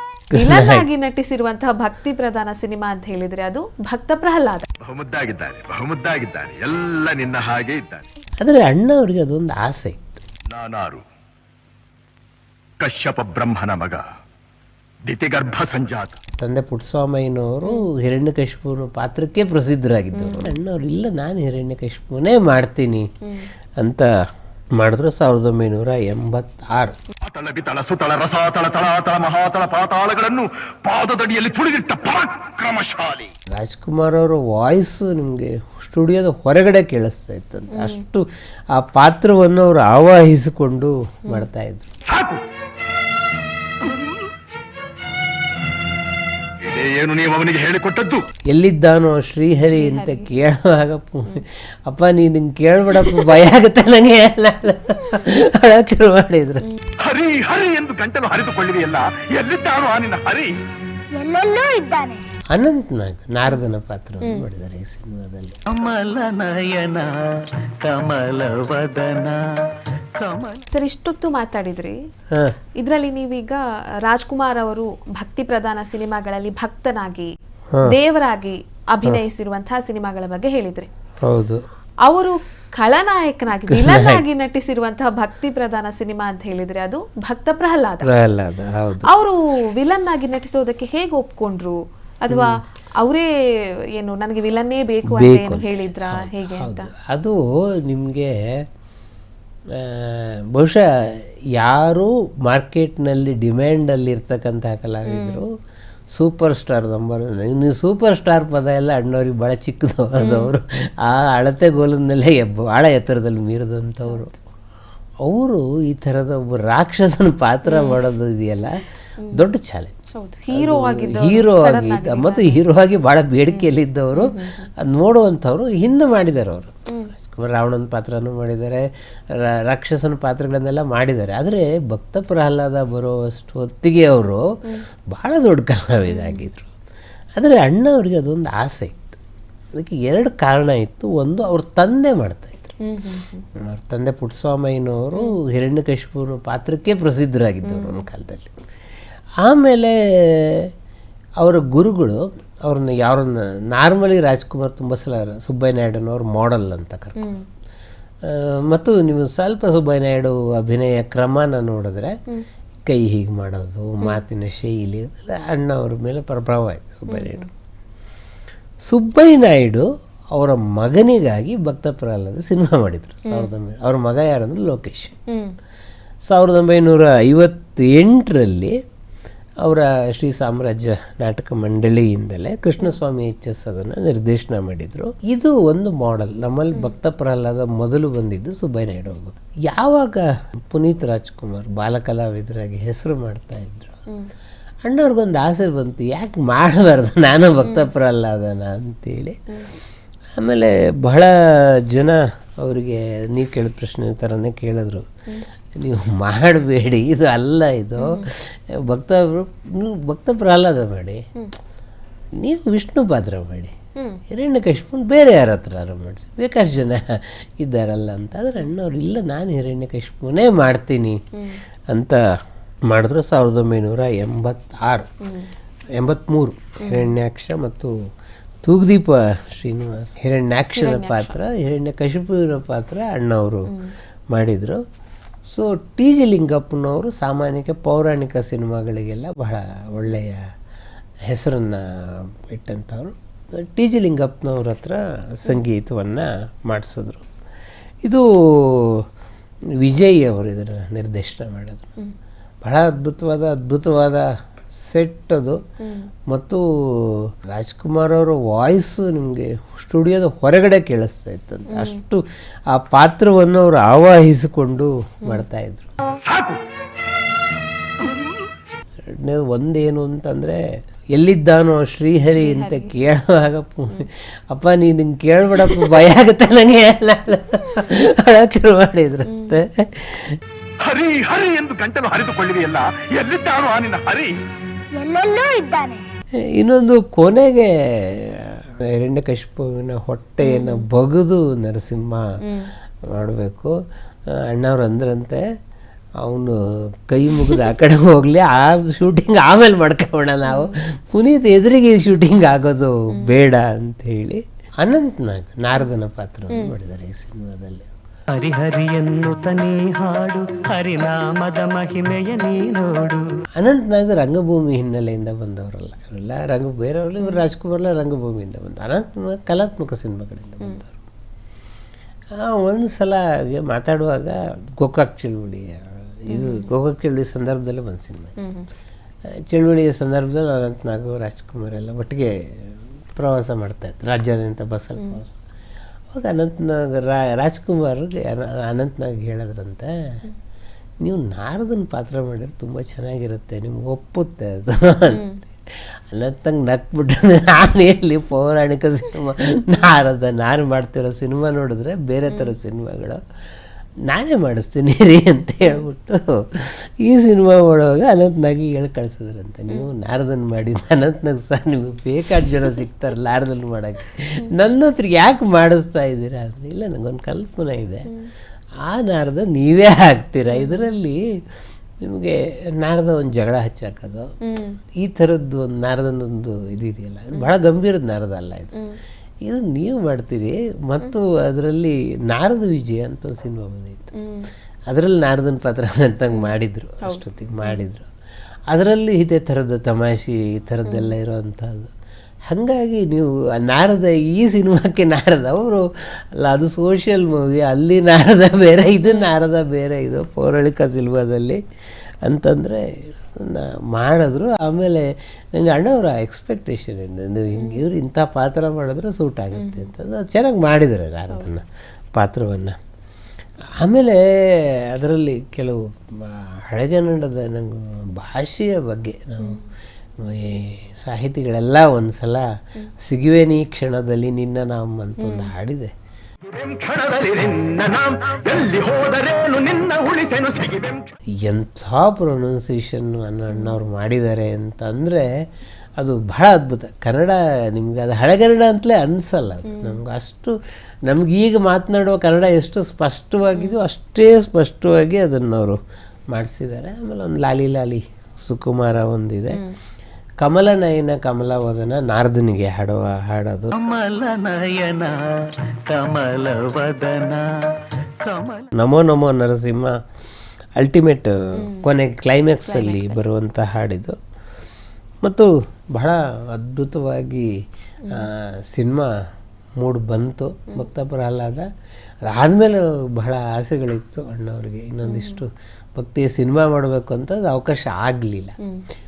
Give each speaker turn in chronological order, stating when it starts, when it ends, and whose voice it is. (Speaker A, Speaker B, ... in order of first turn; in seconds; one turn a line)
Speaker A: 0.3-0.9
Speaker B: 0.3-4.7
Speaker C: 4.8-8.0
Speaker A: 8.4-10.2
Speaker C: 10.5-11.0
Speaker C: 12.8-14.0
Speaker C: 15.1-16.1
Speaker A: 16.4-23.1
Speaker B: 20.2-20.6
Speaker A: 23.8-24.1
Speaker A: 24.8-26.9
Speaker C: 27.2-33.3
Speaker A: 33.5-41.9
Speaker B: 37.7-38.0
Speaker C: 42.1-42.4
Speaker C: 46.6-48.3
Speaker A: 48.5-56.7
Speaker B: 49.7-50.3
Speaker C: 57.0-60.5
Speaker D: 61.2-62.3
Speaker A: 62.5-65.6
Speaker E: 65.7-67.2
Speaker E: 67.8-69.4
Speaker E: 70.2-70.6
Speaker B: 70.7-72.0
Speaker B: 72.8-77.3
Speaker B: 77.9-80.9
Speaker A: 81.2-81.6
Speaker B: 82.0-88.1
Speaker A: 83.7-84.2
Speaker A: 88.0-89.1
Speaker B: 89.0-93.3
Speaker B: 94.0-96.9
Speaker A: 95.1-98.7
Speaker A: 99.7-105.5
Speaker B: 105.1-105.4
Speaker A: 106.1-114.3
Speaker B: 110.2-110.5
Speaker B: 114.1-114.3
Speaker A: 115.2-118.7
Speaker B: 117.7-118.0
Speaker B: 119.2-119.4
Speaker A: 119.3-134.4
Speaker B: 120.1-122.6
Speaker B: 123.5-124.7
Speaker B: 126.9-127.1
Speaker A: 135.1-136.7
Speaker B: 136.1-136.4
Speaker A: 137.4-139.2
Speaker A: 139.7-142.8
Speaker B: 142.8-143.5
Speaker A: 143.6-148.6
Speaker B: 147.7-148.0
Speaker A: 149.4-150.7
Speaker A: 151.4-157.3
Speaker B: 157.2-157.4
Speaker A: 158.2-162.1
Speaker A: 162.8-167.5
Speaker B: 167.1-167.5
Speaker A: 168.9-175.2
Speaker B: 175.3-175.5
Speaker A: 176.3-178.8
Speaker A: 179.6-194.0
Speaker A: 194.8-199.4
Speaker B: 197.6-197.9
Speaker A: 200.4-205.1
Speaker A: 205.8-211.2
Speaker B: 208.0-208.3
Speaker A: 212.4-213.8
Speaker B: 214.0-214.2
Speaker A: 214.3-221.2
Speaker B: 221.4-221.6
Speaker A: 221.9-222.2
Speaker A: 222.9-225.1
Speaker B: 225.2-225.5
Speaker A: 226.0-227.9
Speaker B: 226.8-227.1
Speaker A: 228.6-233.8
Speaker B: 230.8-231.4
Speaker B: 233.7-233.9
Speaker A: 234.3-234.8
Speaker A: 235.5-240.4
Speaker A: 241.3-247.3
Speaker A: 248.1-249.1
Speaker A: 249.8-251.9
Speaker A: 252.6-254.3
Speaker A: 254.8-255.6
Speaker A: 256.3-265.9
Speaker B: 261.7-262.0
Speaker C: 266.2-266.6
Speaker C: 268.0-268.3
Speaker A: 269.1-270.6
Speaker A: 271.2-280.4
Speaker B: 272.3-272.9
Speaker B: 279.3-279.6
Speaker C: 280.9-284.3
Speaker D: 285.0-286.1
Speaker A: 286.6-292.2
Speaker B: 290.4-290.9
Speaker B: 292.4-292.7
Speaker A: 293.1-293.8
Speaker A: 294.3-295.4
Speaker A: 296.2-307.9
Speaker B: 300.5-300.8
Speaker B: 303.1-303.4
Speaker E: 308.4-313.2
Speaker A: 313.6-321.0
Speaker A: 322.4-328.4
Speaker B: 326.3-326.7
Speaker B: 328.4-328.7
Speaker A: 329.5-335.4
Speaker A: 336.1-340.2
Speaker A: 341.0-353.2
Speaker B: 345.1-345.4
Speaker A: 354.1-368.1
Speaker A: 368.9-371.2
Speaker B: 370.5-370.9
Speaker A: 372.0-374.3
Speaker B: 374.4-374.8
Speaker A: 375.0-378.8
Speaker A: 379.4-384.1
Speaker B: 384.2-384.5
Speaker A: 384.9-388.1
Speaker B: 387.1-387.8
Speaker A: 388.7-391.9
Speaker B: 390.9-391.1
Speaker A: 392.5-401.6
Speaker A: 402.2-412.8
Speaker B: 407.6-407.8
Speaker B: 409.6-409.9
Speaker A: 413.8-419.6
Speaker A: 420.2-422.5
Speaker A: 423.0-425.9
Speaker B: 425.2-425.5
Speaker C: 426.5-431.1
Speaker A: 431.4-435.3
Speaker B: 433.5-433.8
Speaker A: 436.0-440.5
Speaker B: 439.6-440.0
Speaker A: 441.1-445.8
Speaker A: 446.3-449.6
Speaker A: 450.4-453.7
Speaker E: 453.7-455.3
Speaker E: 455.9-457.4
Speaker E: 458.0-458.7
Speaker A: 458.8-459.9
Speaker A: 460.8-464.2
Speaker B: 461.6-461.9
Speaker B: 462.6-463.2
Speaker A: 465.2-467.5
Speaker B: 468.0-468.3
Speaker A: 468.1-469.1
Speaker A: 469.8-471.7
Speaker A: 472.2-478.6
Speaker B: 475.1-475.4